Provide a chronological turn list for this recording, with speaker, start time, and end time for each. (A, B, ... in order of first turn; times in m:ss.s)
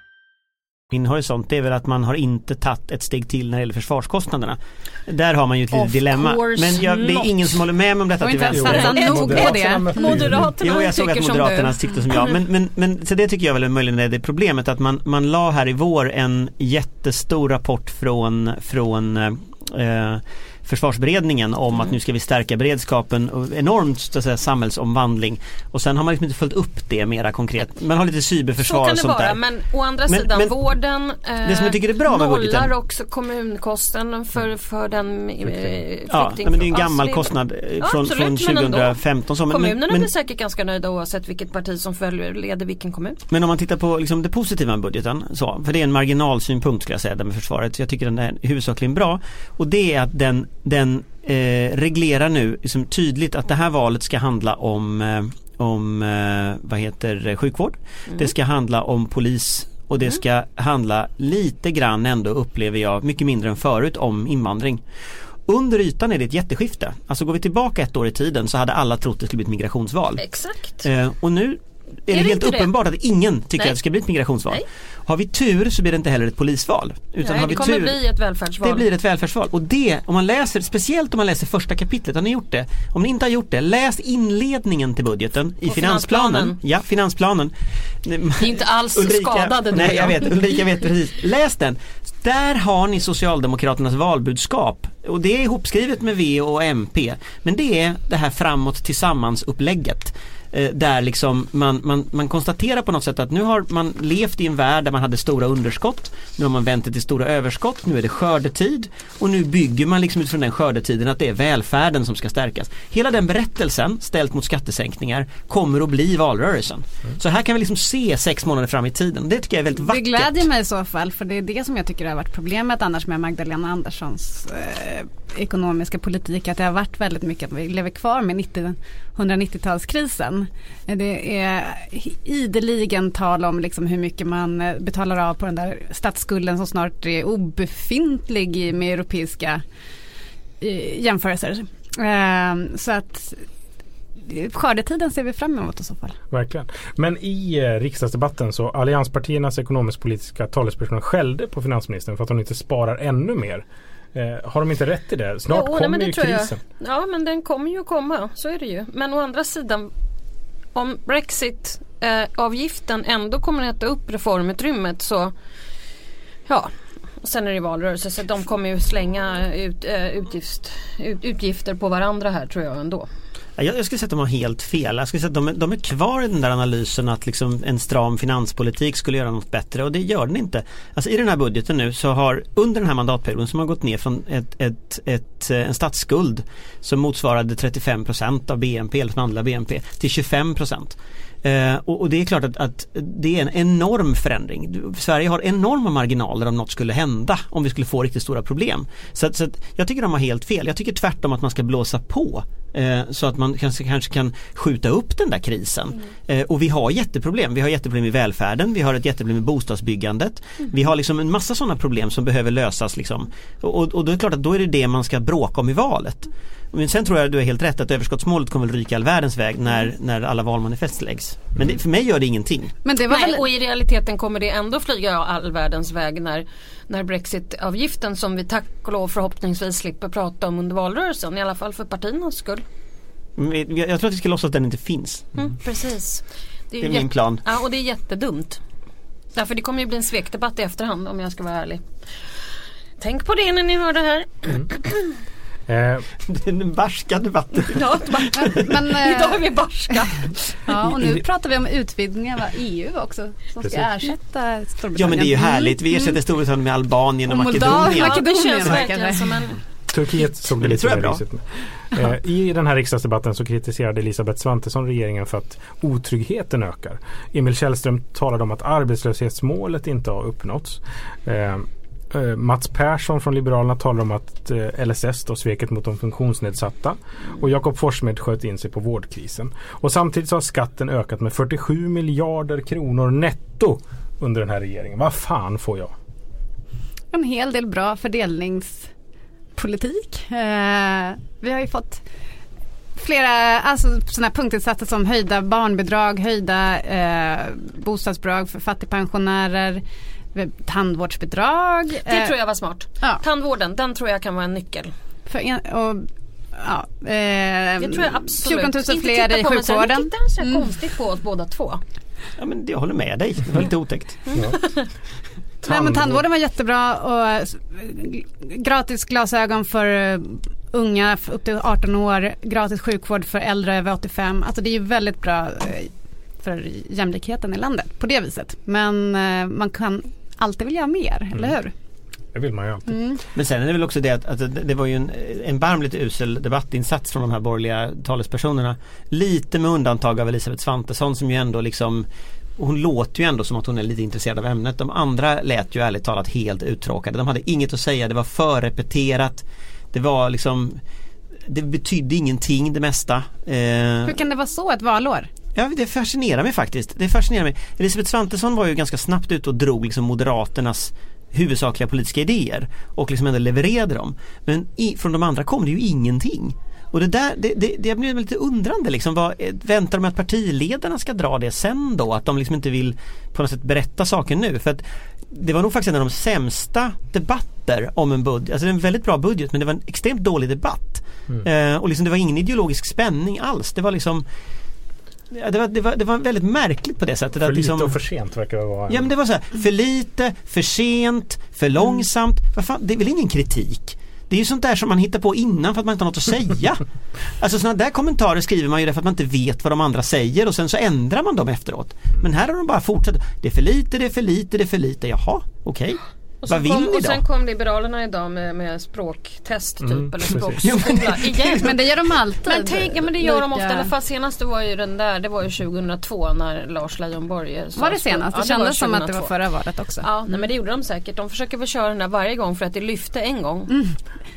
0:00.9-0:09.4 A
0:05.7-0:07.6 B
0:08.2-0:10.4 C
0:08.5-0:10.5 D
0:08.6-0:12.4 B
0:10.6-0:29.4 A
0:28.6-0:43.2 B
0:30.1-0:30.5 A
0:31.4-0:32.7 A
0:36.1-0:40.1 A
0:43.3-1:04.8 A
1:05.5-1:10.2 A
1:10.2-1:10.9 B
1:10.8-1:18.0 A
1:12.1-1:12.7 B
1:17.2-1:18.8 B
1:18.6-2:00.5 A
1:25.7-1:26.6 B
1:28.4-1:30.4 B
1:59.8-2:19.6 C
2:20.6-2:23.4 C
2:24.2-2:26.2 C
2:26.3-2:36.6 D
2:35.5-2:39.9 B
2:40.7-2:45.3 B
2:46.5-2:53.1 B
2:53.6-3:42.7 A
3:42.8-3:43.5 C
3:43.1-3:52.6 B
3:53.4-3:55.3 A
3:55.4-3:58.6 B
3:56.8-3:57.4 A
3:59.3-4:01.8 B
4:03.0-4:05.1 B
4:05.7-4:06.1 D
4:06.2-4:08.7 A
4:07.5-4:10.3 B
4:08.4-4:09.5 C
4:10.7-4:16.2 C
4:10.7-4:11.2 D
4:14.9-4:18.8 A
4:17.3-4:19.3 C
4:17.6-4:19.6 B
4:19.9-4:45.9 D
4:20.6-4:21.2 A
4:47.1-4:48.9 C
4:49.5-4:52.0 C
4:52.9-4:59.8 C
5:00.3-5:02.3 C
5:02.0-5:04.9 B
5:05.3-5:10.7 C
5:07.8-5:11.8 B
5:12.4-5:14.2 A
5:14.3-5:14.8 B
5:14.3-5:14.6 D
5:15.6-5:16.2 D
5:15.6-5:31.7 C
5:32.3-5:33.0 D
5:32.9-5:33.2 C
5:33.3-5:42.0 A
5:42.6-5:50.8 A
5:51.5-5:54.2 A
5:54.0-5:55.3 C
5:55.5-6:24.2 A
6:25.3-6:27.9 A
6:27.4-6:29.1 D
6:28.9-6:47.2 A
6:46.4-6:51.8 B
6:49.8-6:50.6 D
6:50.6-6:51.8 A
6:51.6-6:53.9 C
6:52.4-6:59.3 B
6:57.8-7:00.1 C
7:00.0-7:03.8 B
7:03.7-7:04.0 C